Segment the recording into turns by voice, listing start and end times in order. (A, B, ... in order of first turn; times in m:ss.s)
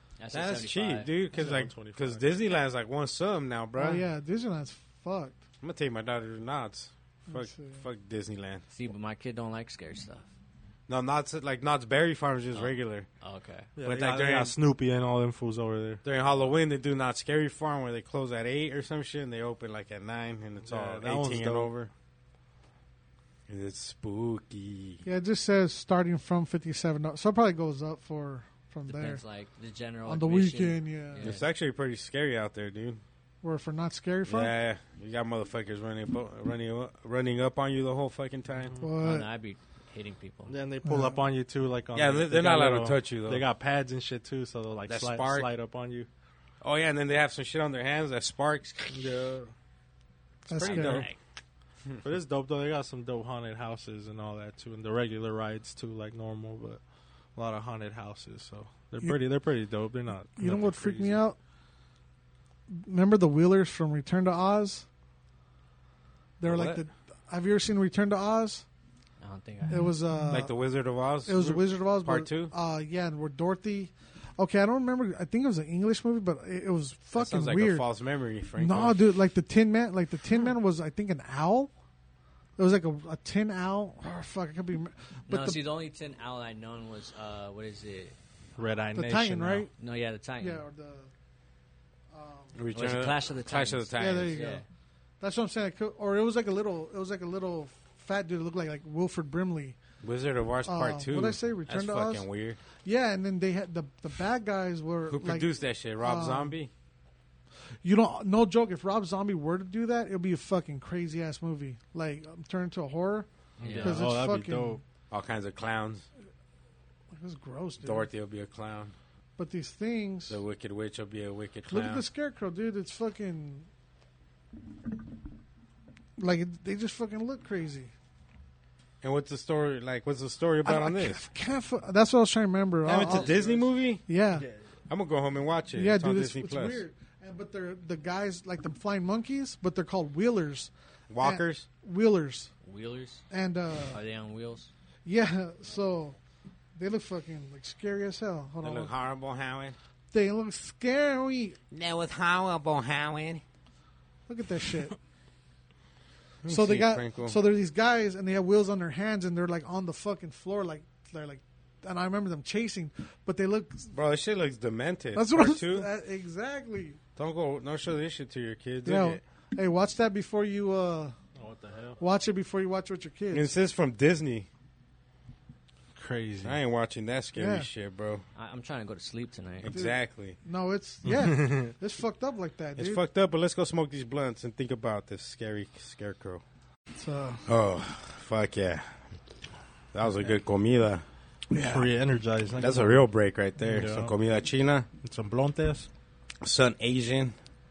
0:00.2-0:01.1 A
0:00.3-0:04.0 B
0:01.3-0:02.2 C
0:03.8-0:05.4 D
0:05.6-0:08.6 B
0:07.3-0:07.8 D
0:08.7-0:10.3 A
0:10.9-0:13.1 B
0:12.5-0:13.7 A
0:13.8-0:16.0 C
0:13.8-0:14.5 B
0:16.0-0:21.9 B
0:20.7-0:21.7 C
0:23.5-0:25.0 B
0:25.0-0:29.2 D
0:28.9-0:31.4 A
0:30.0-0:31.2 D
0:31.2-0:33.0 B
0:33.4-0:34.5 D
0:34.3-0:38.7 B
0:38.8-0:39.3 D
0:39.0-0:40.5 A
0:40.5-0:46.1 C
0:40.8-0:41.2 D
0:41.9-0:43.4 B
0:44.9-0:45.5 B
0:46.6-0:49.0 B
0:48.9-0:49.5 C
0:50.5-0:51.1 D
0:50.5-0:51.2 A
0:50.6-0:51.1 C
0:52.0-0:56.8 C
0:57.4-1:01.2 C
1:00.4-1:01.4 D
1:02.7-1:04.8 D
1:06.4-1:08.6 D
1:06.5-1:06.8 B
1:09.2-1:10.0 A
1:09.7-1:10.5 D
1:10.3-1:12.5 B
1:11.3-1:17.8 D
1:17.2-1:19.0 B
1:18.6-1:21.7 D
1:22.6-1:25.6 D
1:25.3-1:28.2 A
1:28.6-1:29.7 C
1:29.0-1:29.7 D
1:29.8-1:30.6 A
1:30.4-1:31.1 D
1:32.1-1:32.6 D
1:32.5-1:34.4 B
1:32.7-1:34.6 A
1:34.0-1:34.6 D
1:35.2-1:39.8 D
1:40.0-1:42.6 B
1:40.7-1:42.2 D
1:42.8-1:45.5 D
1:45.1-1:46.7 B
1:46.0-1:46.5 D
1:47.8-1:54.8 D
1:53.6-1:54.0 A
1:53.6-1:54.8 C
1:55.1-1:56.1 B
1:57.1-1:58.1 D
1:57.8-1:59.0 B
1:59.4-2:00.4 D
2:00.3-2:02.0 B
2:01.7-2:03.7 D
2:06.2-2:07.9 D
2:09.0-2:11.2 B
2:10.6-2:13.3 D
2:12.8-2:14.0 B
2:13.0-2:13.4 A
2:13.1-2:13.5 C
2:14.1-2:14.5 D
2:14.9-2:16.8 B
2:15.8-2:22.5 D
2:21.1-2:21.7 B
2:22.6-2:23.2 A
2:23.3-2:24.0 D
2:23.9-2:24.7 A
2:25.0-2:26.2 D
2:26.8-2:28.9 D
2:28.6-2:29.8 B
2:30.1-2:31.6 D
2:31.7-2:33.4 B
2:34.3-2:35.0 D
2:36.4-2:37.4 B
2:36.5-2:43.9 D
2:43.9-2:45.9 B
2:45.1-2:47.0 D
2:47.2-2:49.2 B
2:48.8-2:51.2 D
2:51.4-2:52.0 C
2:52.0-2:53.5 D
2:53.3-2:54.5 B
2:56.0-2:56.6 C
2:56.4-2:58.2 B
2:57.4-2:57.7 D
2:58.4-2:59.8 A
2:59.6-3:00.4 B
2:59.7-3:03.0 D
3:01.0-3:01.7 C
3:02.8-3:06.4 B
3:07.0-3:07.4 D
3:07.5-3:09.0 B
3:09.9-3:11.0 B
3:11.5-3:11.9 D
3:11.5-3:13.1 C
3:12.6-3:14.9 B
3:13.6-3:14.1 C
3:15.0-3:15.9 C
3:16.4-3:17.4 B